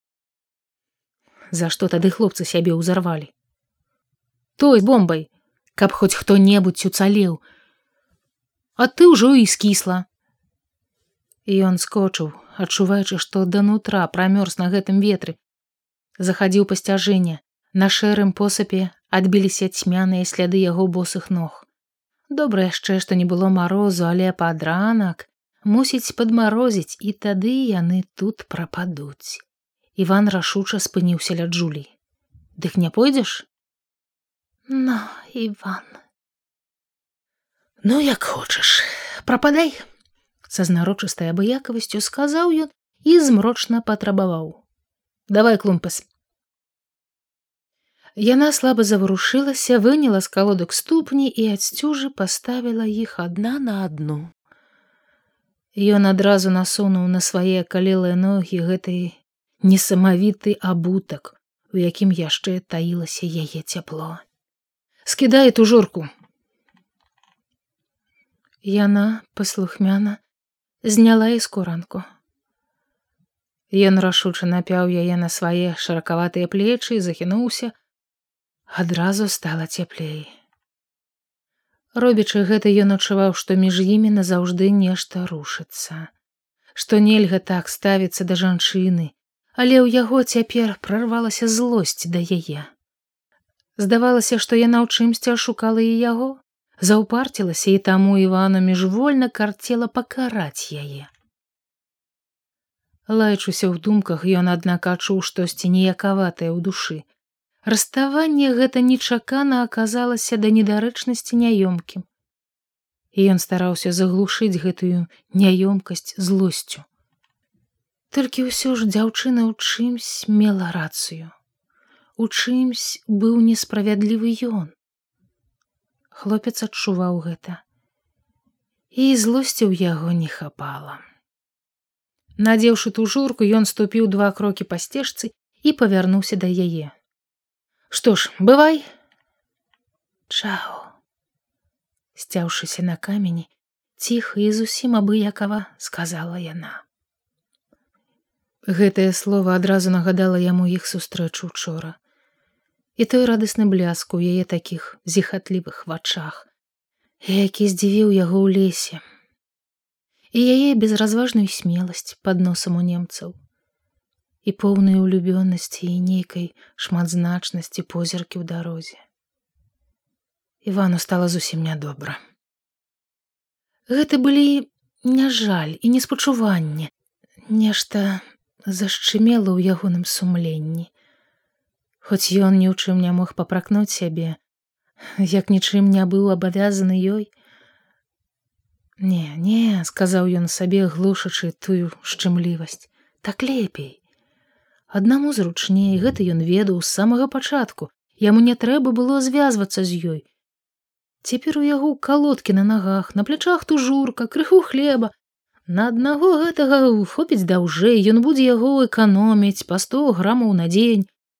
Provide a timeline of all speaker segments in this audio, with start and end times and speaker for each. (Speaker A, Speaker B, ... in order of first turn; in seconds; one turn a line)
Speaker A: 1.5-3.3
Speaker A: 4.6-7.4
Speaker A: 8.8-10.1
Speaker A: 11.4-15.4
Speaker A: 16.2-21.6
Speaker A: 22.3-29.4
Speaker A: 30.0-31.9
Speaker A: 32.6-33.5
Speaker A: 34.7-36.0
Speaker A: 37.8-39.9
Speaker A: 40.5-44.6
Speaker A: 45.3-46.0
Speaker A: 48.2-54.3
Speaker A: 55.7-64.2
Speaker A: 65.0-66.1
Speaker A: 68.6-70.2
Speaker A: 70.8-72.0
Speaker A: 73.7-77.7
Speaker A: 78.7-80.3
Speaker A: 81.9-86.1
Speaker A: 86.7-92.7
Speaker A: 93.8-101.1
Speaker A: 103.1-107.0
Speaker A: 107.6-112.0
Speaker A: 113.1-116.8
Speaker A: 118.1-121.3
Speaker A: 122.2-124.7
Speaker A: 126.1-127.6
Speaker A: 128.9-131.0
Speaker A: 132.4-136.9
Speaker A: 137.9-138.9
Speaker A: 140.3-140.9
Speaker A: 142.1-146.8
Speaker A: 148.7-152.0
Speaker A: 153.0-156.5
Speaker A: 157.2-159.0
Speaker A: 160.3-163.3
Speaker A: 164.4-169.0
Speaker A: 170.6-172.2
Speaker A: 173.9-176.9
Speaker A: 177.5-180.9
Speaker A: 182.0-184.4
Speaker A: 185.2-187.3
Speaker A: 189.0-194.0
Speaker A: 194.9-200.2
Speaker A: 201.2-205.1
Speaker A: 205.7-211.1